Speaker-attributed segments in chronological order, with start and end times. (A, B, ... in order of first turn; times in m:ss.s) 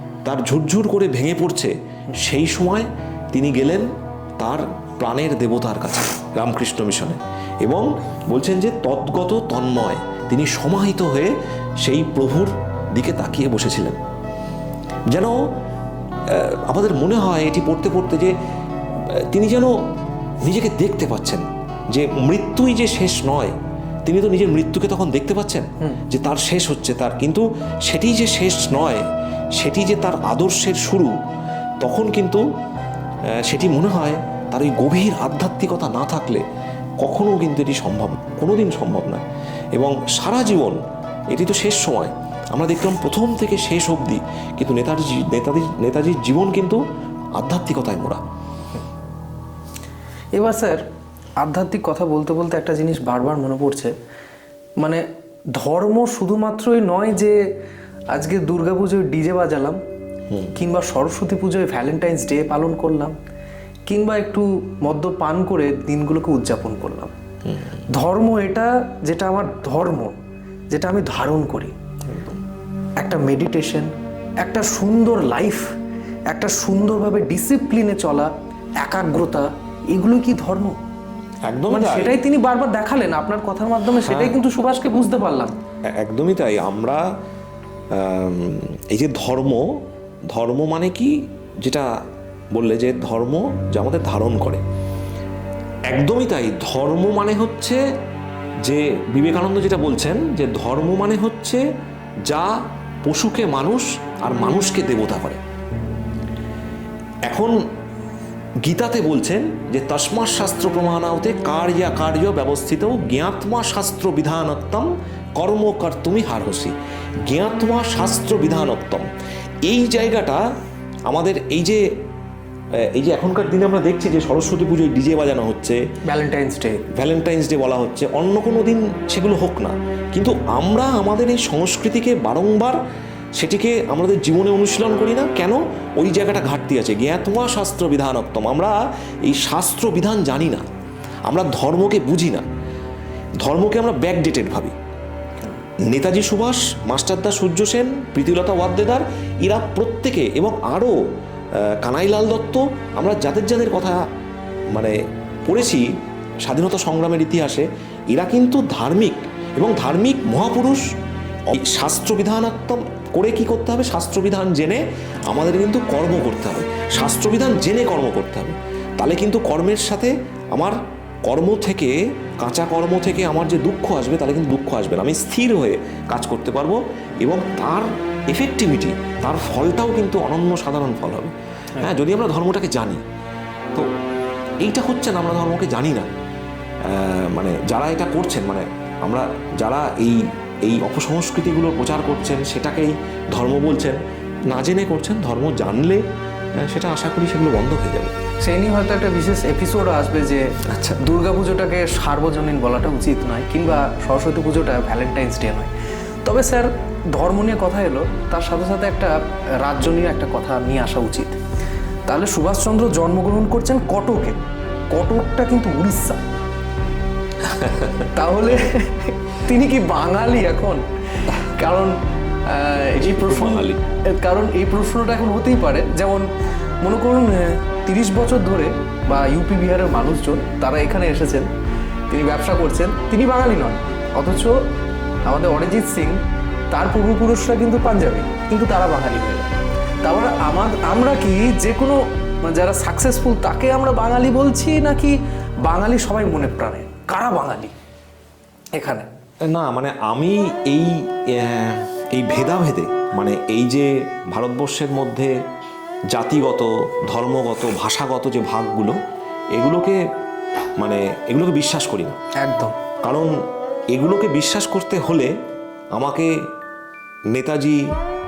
0:00.2-0:03.9 A
0:04.4-0:14.0 A
0:15.1-0:15.5 A
0:16.3-0:18.4 A
0:18.9-0:19.8 A
0:20.4-0:31.2 A
0:31.8-0:32.4 A
0:33.3-0:36.4 A
0:37.0-0:40.8 A
0:41.3-0:46.8 A
0:47.4-0:48.2 A
0:50.3-0:50.9 B
0:51.4-0:53.9 B
0:55.5-0:57.4 B
0:58.1-0:59.8 B
1:00.3-1:00.5 A
1:00.6-1:03.2 B
1:03.9-1:07.2 B
1:07.4-1:07.9 A
1:07.9-1:10.2 B
1:10.7-1:11.8 B
1:12.1-1:12.4 A
1:13.0-1:15.7 B
1:16.3-1:20.8 B
1:21.5-1:22.2 A
1:21.7-1:25.6 B
1:24.0-1:24.4 A
1:25.9-1:27.0 A
1:27.9-1:31.9 A
1:32.5-1:34.6 A
1:35.9-1:37.8 A
1:38.6-1:41.6 A
1:42.3-1:45.4 A
1:47.3-1:47.6 A
1:48.6-1:56.8 A
1:57.3-1:59.1 A
1:59.6-2:00.4 A
2:01.1-2:01.8 A
2:02.8-2:05.8 A
2:06.1-2:06.8 B
2:06.9-2:12.8 A
2:13.4-2:20.7 A
2:21.3-2:22.5 A
2:23.4-2:24.8 A
2:25.8-2:31.0 A
2:31.6-2:34.0 A
2:34.8-2:35.9 A
2:36.4-2:40.9 A
2:41.5-3:03.0 A
3:04.6-3:06.1 A
3:06.8-3:16.0 A
3:16.6-3:18.2 A
3:18.4-3:31.4 B
3:20.7-3:21.0 A
3:32.1-3:34.4 B
3:34.9-3:36.2 B
3:37.5-3:38.1 A
3:38.0-3:46.3 B
3:43.0-3:43.8 A
3:46.8-3:51.5 B
3:52.1-3:54.6 B
3:55.3-3:59.5 B
4:00.0-4:07.7 B
4:08.8-4:09.1 B
4:09.5-4:15.4 A
4:16.1-4:19.0 A
4:19.6-4:20.0 A
4:20.8-4:22.2 A
4:22.4-4:22.8 B
4:23.0-4:23.4 A
4:23.9-4:25.3 A
4:26.0-4:26.3 A
4:27.3-4:27.8 A